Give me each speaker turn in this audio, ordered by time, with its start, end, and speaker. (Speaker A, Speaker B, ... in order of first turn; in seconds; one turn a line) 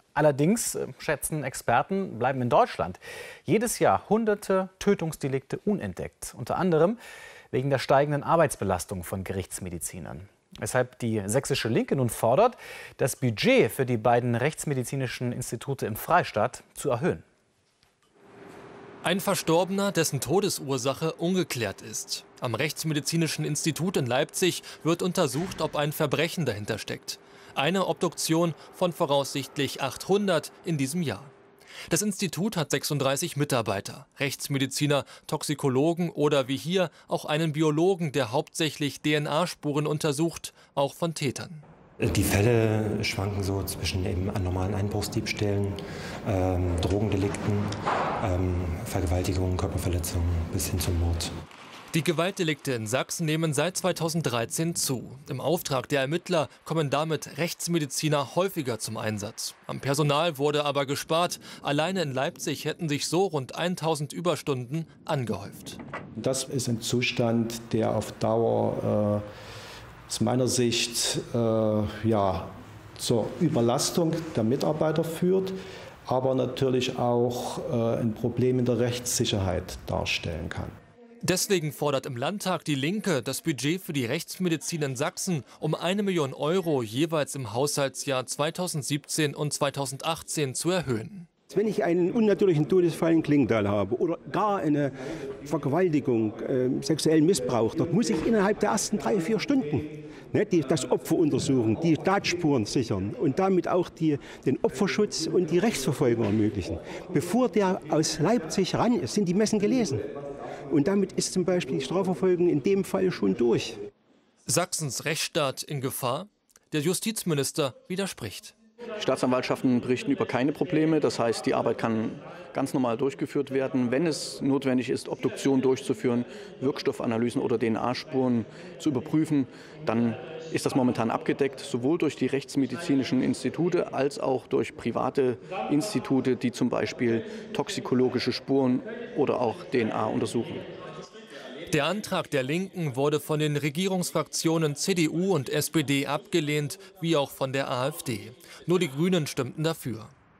Speaker A: 0.1-7.0
Speaker A: 7.5-17.2
Speaker B: 19.0-31.3
Speaker B: 31.9-41.6
Speaker C: 42.0-51.3
Speaker B: 51.9-65.8
Speaker D: 66.2-69.2
Speaker D: 70.1-80.7
Speaker B: 81.2-91.3
Speaker E: 91.5-94.9
Speaker E: 95.5-110.0
Speaker E: 110.7-113.8
Speaker B: 114.5-118.5
Speaker F: 119.0-140.6
Speaker B: 141.7-150.1